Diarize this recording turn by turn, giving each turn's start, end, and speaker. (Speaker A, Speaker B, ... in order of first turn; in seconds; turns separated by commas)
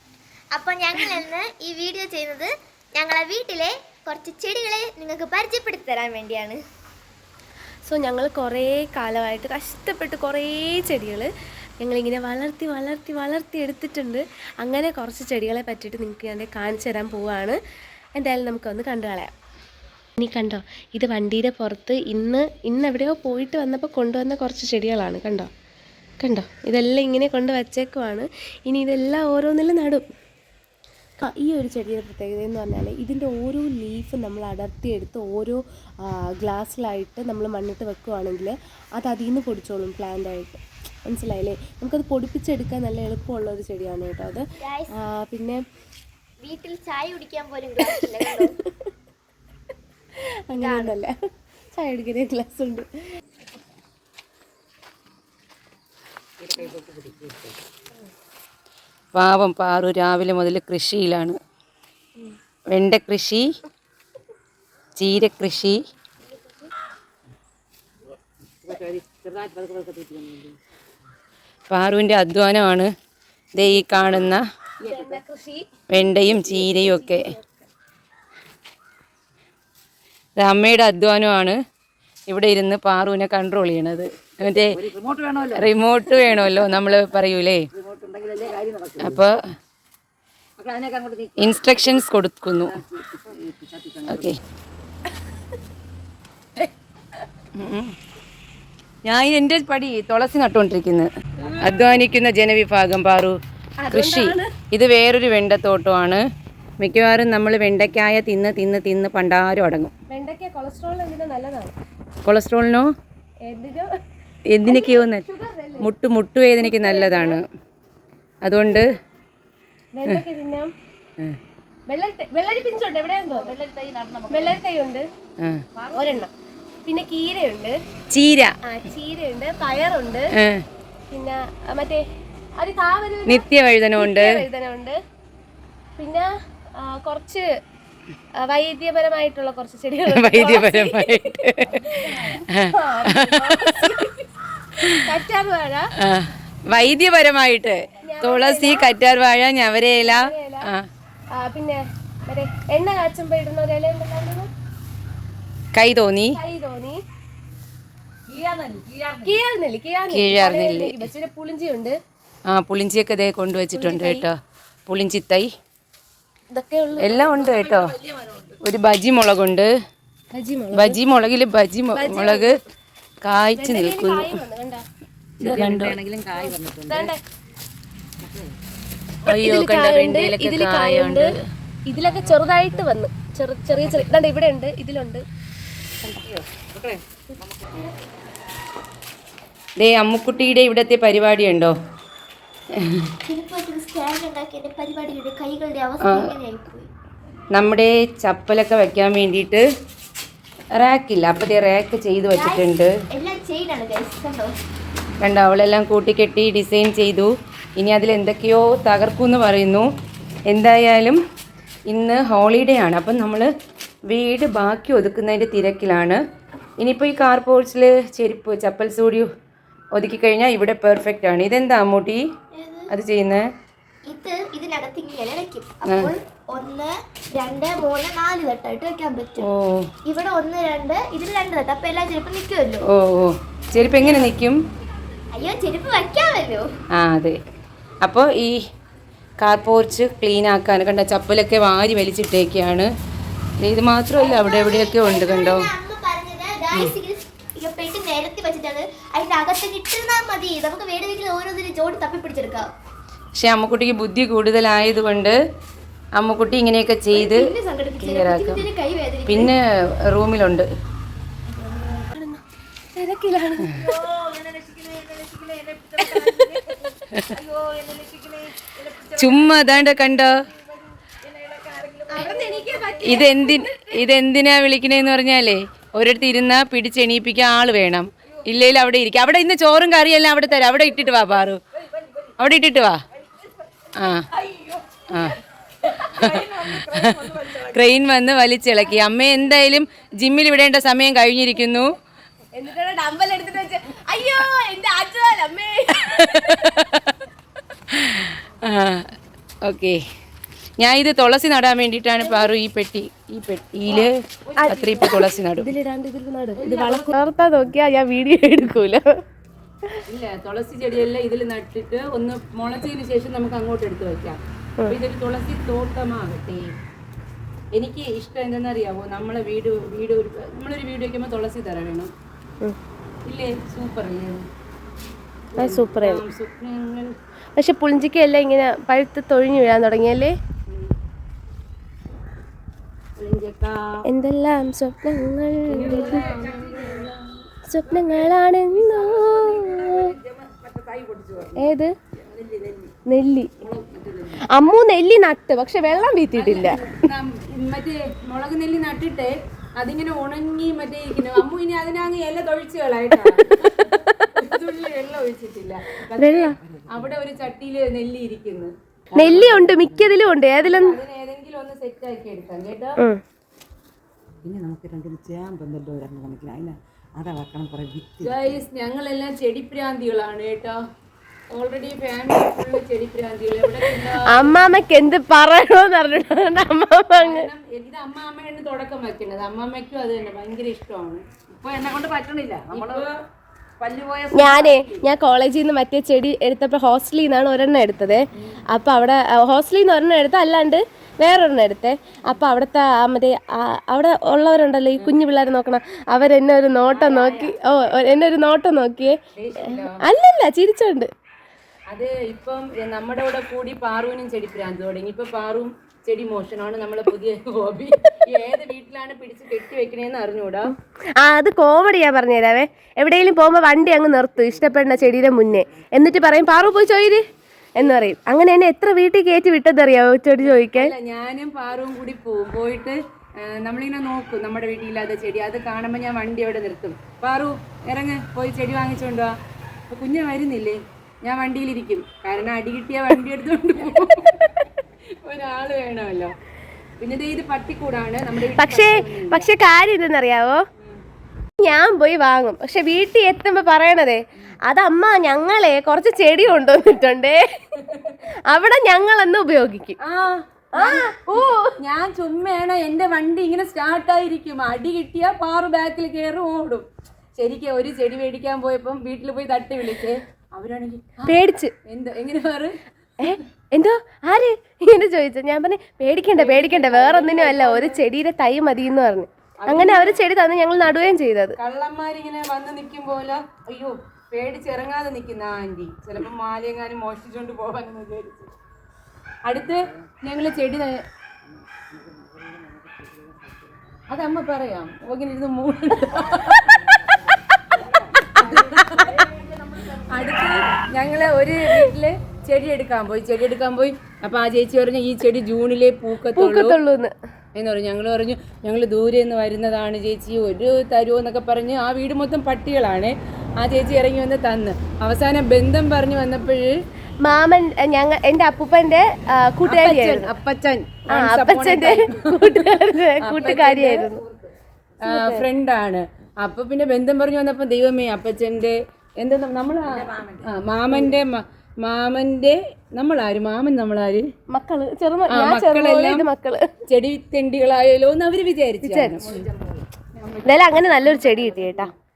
Speaker A: 0.5-6.6, Speaker B: 0.9-1.2, Speaker B: 7.8-11.3, Speaker B: 11.8-17.6, Speaker B: 18.2-19.3, Speaker B: 20.2-25.5, Speaker B: 26.2-30.0, Speaker B: 31.2-44.4, Speaker A: 44.6-45.0, Speaker B: 45.0-45.6, Speaker A: 46.4-48.6, Speaker B: 47.8-48.7, Speaker B: 50.5-51.1, Speaker A: 50.5-50.9, Speaker B: 51.7-52.9, Speaker C: 56.5-57.2, Speaker D: 59.1-61.4, Speaker D: 62.7-63.5, Speaker D: 65.0-65.8, Speaker C: 68.6-70.5, Speaker D: 71.7-72.9, Speaker D: 73.6-74.4, Speaker B: 74.8-75.7, Speaker D: 75.9-77.3, Speaker B: 76.4-77.6, Speaker D: 80.4-81.6, Speaker D: 82.3-84.8, Speaker C: 84.7-85.7, Speaker D: 85.5-87.7, Speaker C: 86.2-86.7, Speaker C: 87.7-89.2, Speaker D: 89.0-89.4, Speaker C: 90.6-92.1, Speaker D: 91.4-92.8, Speaker C: 92.7-94.2, Speaker D: 94.0-94.4, Speaker D: 97.6-97.9, Speaker D: 99.0-103.4, Speaker B: 103.8-104.5, Speaker D: 103.9-106.2, Speaker D: 106.8-109.9, Speaker B: 110.1-111.7, Speaker D: 112.2-112.9, Speaker B: 113.4-113.9, Speaker D: 114.5-115.2, Speaker B: 114.6-115.9, Speaker D: 115.8-117.4, Speaker B: 116.6-117.4, Speaker D: 118.4-118.9, Speaker B: 119.9-120.7, Speaker B: 121.9-123.6, Speaker C: 123.3-124.4, Speaker B: 124.3-125.0, Speaker B: 125.9-126.3, Speaker B: 126.8-127.8, Speaker D: 128.1-128.5, Speaker B: 128.6-130.3, Speaker D: 130.4-130.6, Speaker B: 131.1-132.0, Speaker B: 132.6-134.9, Speaker D: 133.2-134.3, Speaker B: 136.0-137.4, Speaker B: 138.4-144.3, Speaker D: 140.1-141.8, Speaker C: 141.8-142.4, Speaker D: 142.5-143.9, Speaker B: 144.9-145.9, Speaker D: 146.0-150.8, Speaker B: 148.0-148.9, Speaker B: 150.0-150.7, Speaker B: 151.3-154.5, Speaker D: 155.7-156.4, Speaker B: 156.3-157.0, Speaker C: 158.3-159.3, Speaker B: 159.2-161.9, Speaker D: 160.1-161.1, Speaker D: 162.5-164.3, Speaker B: 163.7-164.3, Speaker D: 164.9-165.5, Speaker B: 166.5-167.5, Speaker D: 167.0-168.0, Speaker C: 167.3-168.5, Speaker D: 168.6-169.7, Speaker B: 170.3-171.0, Speaker D: 170.7-172.5, Speaker B: 171.9-172.6, Speaker D: 173.2-174.4, Speaker B: 173.6-174.8, Speaker D: 175.4-176.0, Speaker C: 175.4-177.1, Speaker B: 176.3-177.2, Speaker B: 179.2-181.3, Speaker D: 179.3-181.2, Speaker B: 181.8-185.2, Speaker B: 186.0-186.4, Speaker D: 189.8-191.7, Speaker D: 192.8-193.1, Speaker A: 193.2-196.9, Speaker D: 196.0-196.3, Speaker D: 197.5-199.7, Speaker D: 200.8-202.9, Speaker A: 202.3-204.5, Speaker D: 205.2-209.9, Speaker D: 210.5-211.2, Speaker D: 211.9-213.5, Speaker D: 214.1-216.2, Speaker D: 216.8-219.3, Speaker D: 219.9-222.2, Speaker A: 222.5-222.9, Speaker D: 222.9-223.4, Speaker A: 224.1-229.5, Speaker D: 229.4-229.9, Speaker A: 230.1-232.8, Speaker D: 232.9-234.6, Speaker A: 233.8-234.3, Speaker A: 235.3-236.7, Speaker D: 236.9-237.3, Speaker D: 238.0-238.5, Speaker D: 239.4-242.9, Speaker D: 243.6-245.7, Speaker A: 244.2-252.7, Speaker D: 253.3-255.4, Speaker D: 256.1-258.6, Speaker A: 257.1-259.5, Speaker D: 259.3-260.7, Speaker B: 261.7-262.4, Speaker B: 262.9-264.0, Speaker C: 264.0-266.8, Speaker B: 265.9-266.9, Speaker D: 267.1-267.4, Speaker C: 267.3-270.2, Speaker D: 269.1-270.4, Speaker C: 271.3-273.8, Speaker B: 272.1-274.0, Speaker D: 273.0-281.6, Speaker D: 282.4-283.0, Speaker D: 283.9-284.3, Speaker B: 284.4-284.8, Speaker D: 285.1-285.4, Speaker B: 285.9-286.8, Speaker C: 286.0-287.7, Speaker D: 286.1-291.9, Speaker B: 292.5-296.9, Speaker D: 296.2-297.1, Speaker D: 297.9-299.1, Speaker D: 299.6-300.0, Speaker D: 300.8-305.7, Speaker C: 304.5-305.1, Speaker B: 304.6-309.0, Speaker C: 306.6-306.9, Speaker D: 306.8-307.1, Speaker D: 310.1-316.7, Speaker D: 317.7-322.1, Speaker D: 323.3-324.5, Speaker D: 325.5-327.1, Speaker B: 325.6-326.2, Speaker B: 327.6-330.3, Speaker D: 333.2-333.9, Speaker B: 334.1-336.5, Speaker D: 335.7-337.1, Speaker C: 335.7-337.1, Speaker B: 337.6-340.1, Speaker C: 337.9-341.6, Speaker B: 341.6-341.9, Speaker C: 342.2-342.9, Speaker B: 343.1-343.5, Speaker C: 343.6-344.5, Speaker B: 344.4-346.9, Speaker D: 346.3-353.6, Speaker B: 353.2-354.4, Speaker D: 354.4-358.7, Speaker B: 356.1-356.5, Speaker C: 356.7-357.4, Speaker C: 359.1-360.1, Speaker B: 359.1-361.0, Speaker D: 359.3-359.9, Speaker D: 360.6-362.9, Speaker C: 364.4-368.5, Speaker D: 368.2-370.8, Speaker D: 371.5-374.6, Speaker B: 374.2-377.5, Speaker D: 377.2-381.3, Speaker C: 381.3-383.1, Speaker D: 382.2-383.1, Speaker D: 383.8-385.1, Speaker B: 384.3-401.1, Speaker D: 396.9-397.5, Speaker D: 399.4-400.0, Speaker D: 401.9-410.7, Speaker B: 411.2-417.2, Speaker C: 414.6-416.0, Speaker B: 417.8-420.9, Speaker D: 420.4-423.0, Speaker D: 423.6-429.3, Speaker D: 429.9-434.4, Speaker D: 435.2-436.3, Speaker D: 437.0-439.5, Speaker B: 438.5-440.6, Speaker B: 441.6-450.0, Speaker D: 450.0-451.1, Speaker B: 450.7-451.8, Speaker D: 451.8-456.9, Speaker D: 457.4-461.3, Speaker B: 461.2-461.7, Speaker D: 461.9-462.8, Speaker B: 463.2-471.6, Speaker D: 466.3-468.0, Speaker D: 469.6-470.2, Speaker D: 471.6-478.5, Speaker D: 479.5-481.0, Speaker C: 479.5-480.1, Speaker C: 481.8-483.8, Speaker D: 484.1-487.4, Speaker C: 486.1-490.8, Speaker D: 488.1-489.3, Speaker D: 490.0-496.8, Speaker B: 496.3-497.1, Speaker D: 497.6-506.7, Speaker B: 507.2-510.3, Speaker D: 509.6-514.1, Speaker B: 511.1-514.2, Speaker C: 514.1-514.5, Speaker D: 515.0-524.3, Speaker B: 515.0-515.5, Speaker C: 519.8-521.1, Speaker B: 524.5-526.7, Speaker D: 525.3-526.3, Speaker D: 526.9-529.5, Speaker B: 528.8-529.4, Speaker C: 529.2-531.5, Speaker D: 530.2-531.9, Speaker B: 530.4-531.9